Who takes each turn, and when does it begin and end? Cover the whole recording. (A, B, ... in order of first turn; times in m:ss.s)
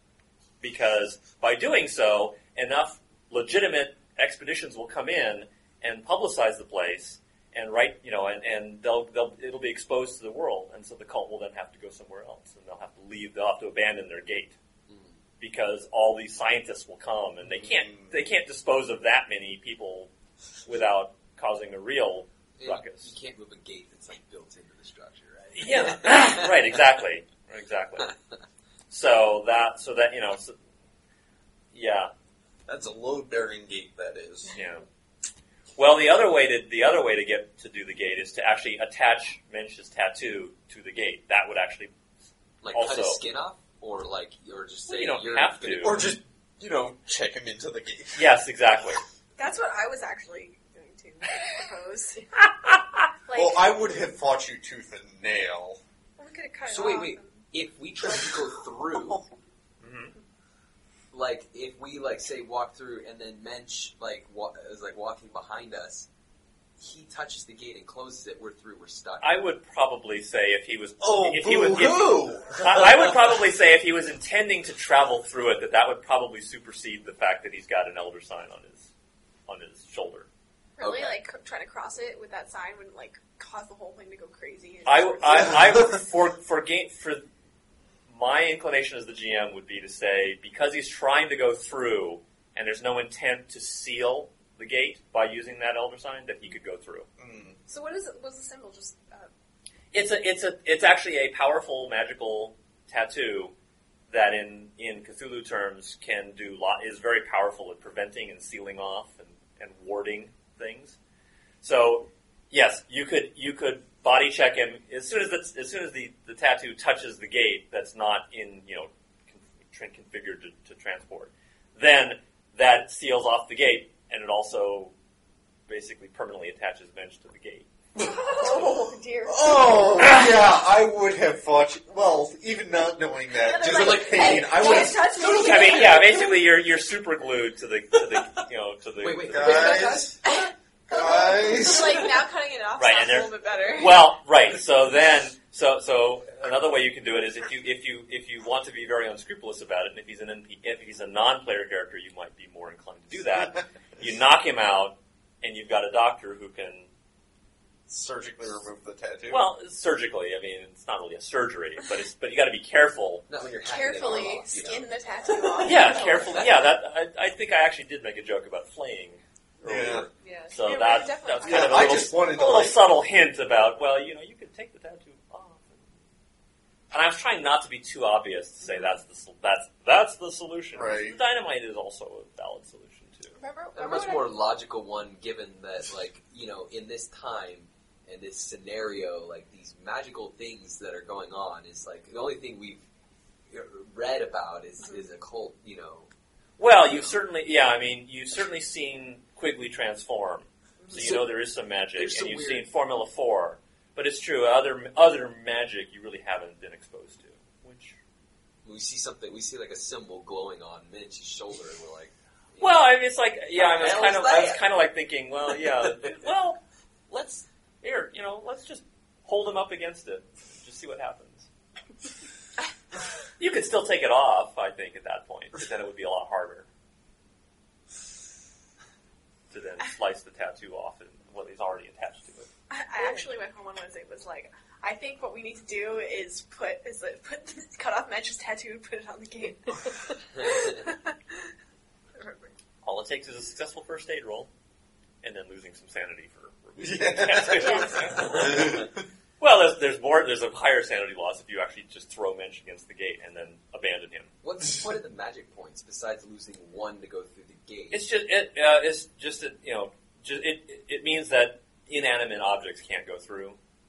0:00.6-0:14.6 A
0:14.9-0:15.2 B
0:15.4-0:20.1 A
0:17.4-0:18.1 C
0:20.6-0:23.1 A
0:22.6-0:26.8 B
0:25.6-0:28.1 A
0:28.9-0:30.6 A
0:31.7-0:32.1 A
0:32.7-0:34.5 C
0:34.5-0:34.8 A
0:35.8-0:41.9 A
0:42.6-0:46.1 B
0:42.7-0:43.2 A
0:44.9-0:46.0 A
0:45.8-0:48.3 C
0:48.1-0:49.0 A
0:49.4-0:52.4 D
0:52.6-0:52.9 A
0:53.3-0:53.7 D
0:53.3-0:55.8 C
0:56.2-0:57.5 D
0:56.6-0:59.2 B
0:59.8-1:00.1 A
1:01.1-1:06.1 B
1:06.8-1:09.4 B
1:09.2-1:18.9 A
1:11.0-1:13.4 C
1:19.5-1:20.3 A
1:20.8-1:25.7 D
1:20.8-1:21.2 A
1:24.9-1:27.2 A
1:28.1-1:37.1 A
1:37.2-1:37.6 C
1:37.7-1:39.3 D
1:39.9-1:43.5 A
1:44.1-1:51.0 A
1:51.6-2:04.9 A
2:05.7-2:07.7 A
2:08.3-2:09.9 E
2:09.3-2:15.2 C
2:13.3-2:16.4 D
2:13.7-2:16.0 B
2:15.4-2:19.9 A
2:19.0-2:20.3 B
2:19.2-2:20.2 C
2:20.2-2:24.1 D
2:20.9-2:22.1 C
2:22.8-2:36.9 A
2:37.9-2:39.4 C
2:39.3-2:43.3 A
2:43.3-2:46.7 B
2:43.6-2:46.6 D
2:45.6-2:55.9 A
2:49.6-2:50.1 C
2:50.2-2:50.6 E
2:50.5-2:52.0 D
2:51.4-2:52.8 C
2:56.9-3:03.4 A
2:58.6-2:59.0 D
3:00.7-3:01.2 C
3:03.4-3:04.4 D
3:03.7-3:12.8 B
3:13.5-3:16.1 B
3:16.6-3:28.0 A
3:20.9-3:21.4 B
3:22.0-3:22.7 B
3:28.6-3:32.8 B
3:32.6-3:41.5 A
3:33.6-3:34.6 B
3:35.5-3:36.2 B
3:43.4-3:46.7 A
3:49.5-3:52.5 A
3:52.7-4:01.5 D
4:02.1-4:02.5 D
4:02.8-4:04.5 A
4:05.2-4:14.3 A
4:06.8-4:08.9 C
4:14.4-4:18.0 B
4:17.9-4:23.6 A